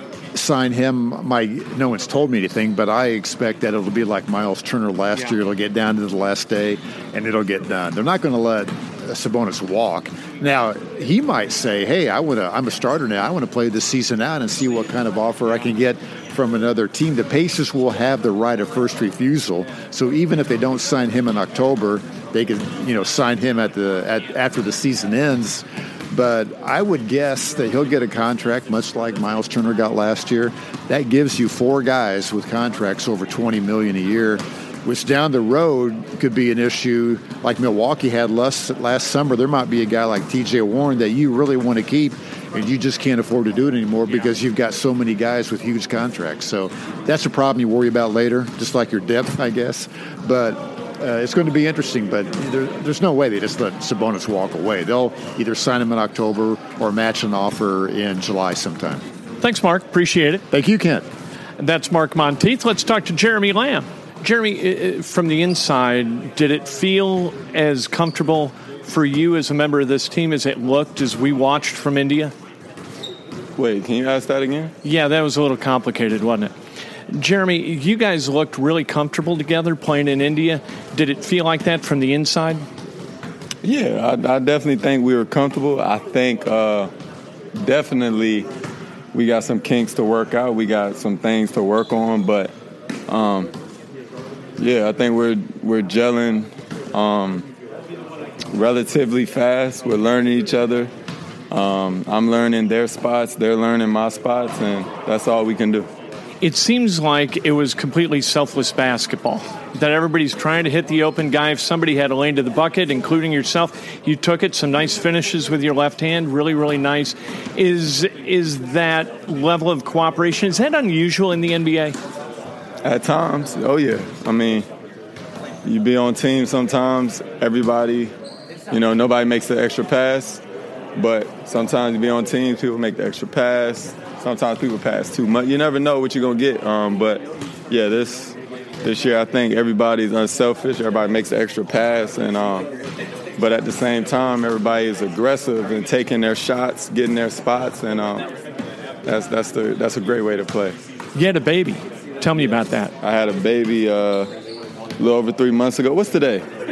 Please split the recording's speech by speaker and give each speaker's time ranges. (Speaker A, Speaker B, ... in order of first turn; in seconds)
Speaker A: 0.3-59.0, 60.5-61.0
Speaker B: 59.4-60.4, 61.6-72.3, 74.8-76.5, 77.1-82.6, 106.4-122.0, 151.1-152.9
Speaker C: 73.6-74.7, 83.6-86.9, 87.5-88.5, 89.1-92.5, 93.1-93.5, 94.6-97.5, 98.5-100.9, 101.5-105.9, 122.8-124.7, 125.6-128.1, 128.7-130.4, 130.9-142.7, 143.4-148.3, 149.0-150.8, 153.0-154.3, 155.0-156.4